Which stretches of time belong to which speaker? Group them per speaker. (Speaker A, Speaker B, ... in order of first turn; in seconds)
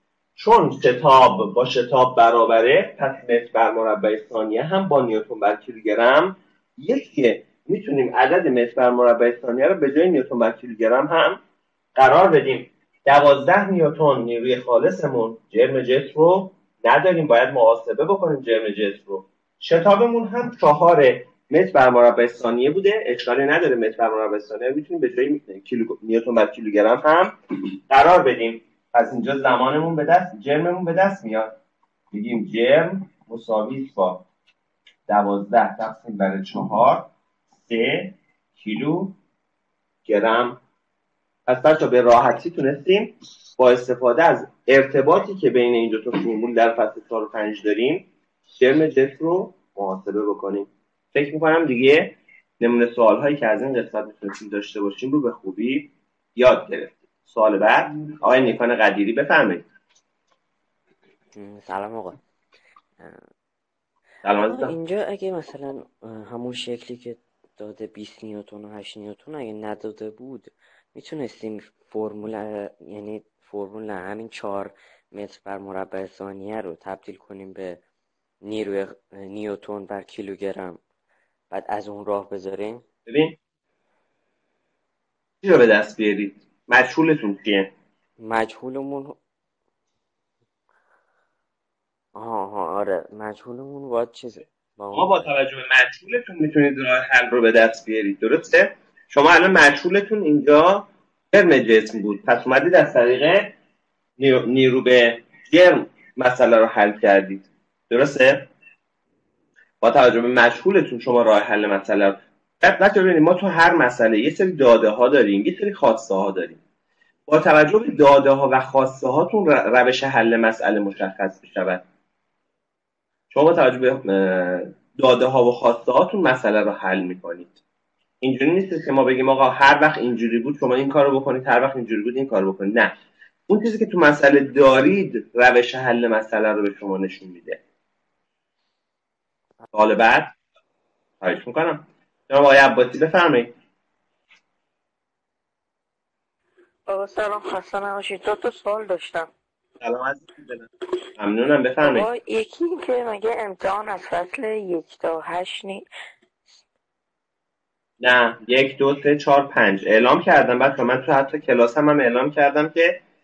Speaker A: 0.4-11.4, 11.9-27.4, 27.9-31.6, 32.1-34.2, 35.1-39.1, 40.0-40.6, 41.5-59.6, 64.2-64.8, 83.1-83.4, 85.4-87.7, 94.9-103.5, 104.2-108.5, 109.8-116.6, 117.3-121.8, 123.3-127.5, 128.2-132.9, 133.5-137.6, 139.7-140.3, 141.2-143.5, 149.8-152.1, 158.0-163.0
Speaker B: 61.3-62.2, 64.4-77.8, 78.4-80.8, 81.5-82.8, 88.2-89.2, 92.2-95.3
Speaker C: 146.9-149.3, 151.8-155.8